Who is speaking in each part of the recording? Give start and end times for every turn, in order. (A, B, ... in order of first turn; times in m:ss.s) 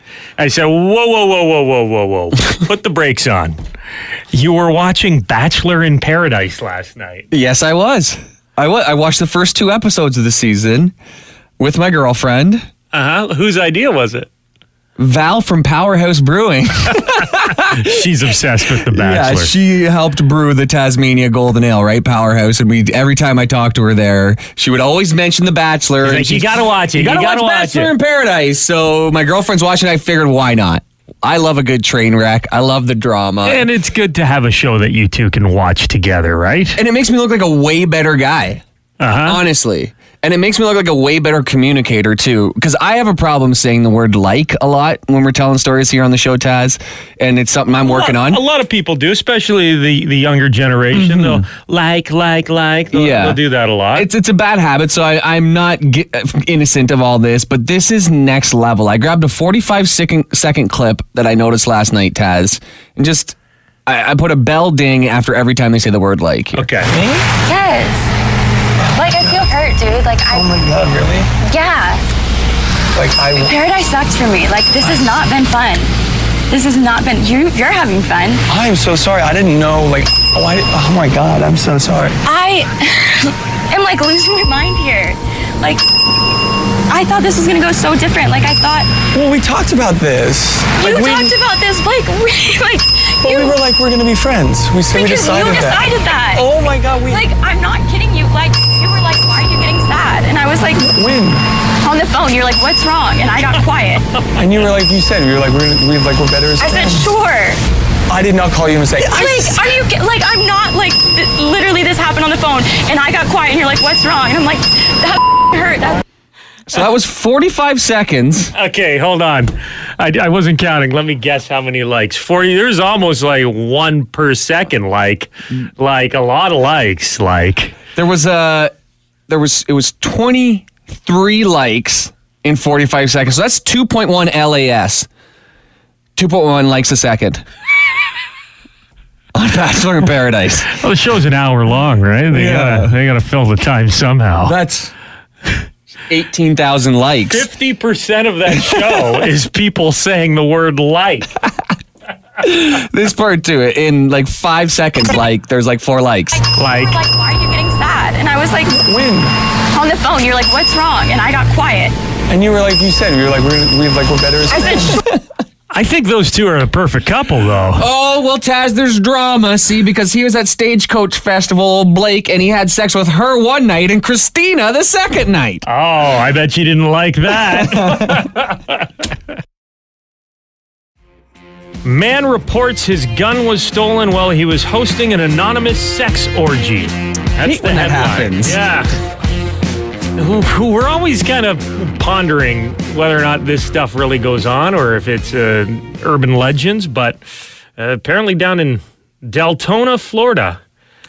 0:00.4-0:03.6 A
0:04.3-0:07.3 A
0:07.3-0:10.9 B
0:11.6-0:12.7 B
0:12.9-0:14.3 A
0:15.0-0:17.9 B
0:17.6-0:19.5 A
0:18.8-0:33.7 B
0:26.0-0:27.9 A
0:33.4-0:36.8 A
0:36.8-0:38.6 B
0:39.0-0:39.4 A
0:39.2-0:48.4 B
0:47.8-0:54.1 A
0:50.9-0:51.4 B
0:52.9-0:53.4 B
0:53.9-1:06.7 B
1:06.6-1:06.9 A
1:07.4-1:08.1 C
1:08.9-1:09.5 D
1:08.9-1:10.5 C
1:10.3-1:11.3 D
1:11.4-1:12.0 C
1:12.9-1:13.6 D
1:13.4-1:15.9 C
1:14.8-1:15.2 D
1:16.5-1:18.4 C
1:18.5-1:22.2 D
1:22.2-1:25.8 C
1:26.9-1:28.9 C
1:29.1-1:31.3 D
1:30.7-1:33.6 C
1:33.2-1:37.3 D
1:34.9-1:36.5 C
1:37.1-1:40.9 C
1:40.8-1:41.4 D
1:41.8-1:44.1 C
1:44.3-1:47.1 D
1:46.6-1:47.6 C
1:48.1-1:49.7 D
1:49.0-1:56.0 C
1:56.7-1:58.5 B
1:58.5-2:07.8 A
2:07.9-2:08.7 B
2:09.3-2:15.1 B
2:16.2-2:17.4 B
2:19.3-2:20.7 B
2:20.7-2:24.6 A
2:22.3-2:22.9 B
2:24.4-2:24.9 B
2:26.1-2:27.5 B
2:27.3-2:31.3 A
2:28.6-2:29.0 B
2:32.4-2:36.4 B
2:36.3-2:38.8 C
2:36.6-2:37.0 A
2:38.7-2:39.3 D
2:39.7-2:41.9 C
2:42.3-2:45.0 D
2:44.5-2:45.0 C
2:45.7-2:47.8 A
2:47.8-2:55.6 B
2:55.6-2:58.9 A
2:57.3-2:58.3 B
3:01.8-3:08.9 A
3:07.4-3:08.6 B
3:10.2-3:17.2 A
3:17.8-3:20.6 A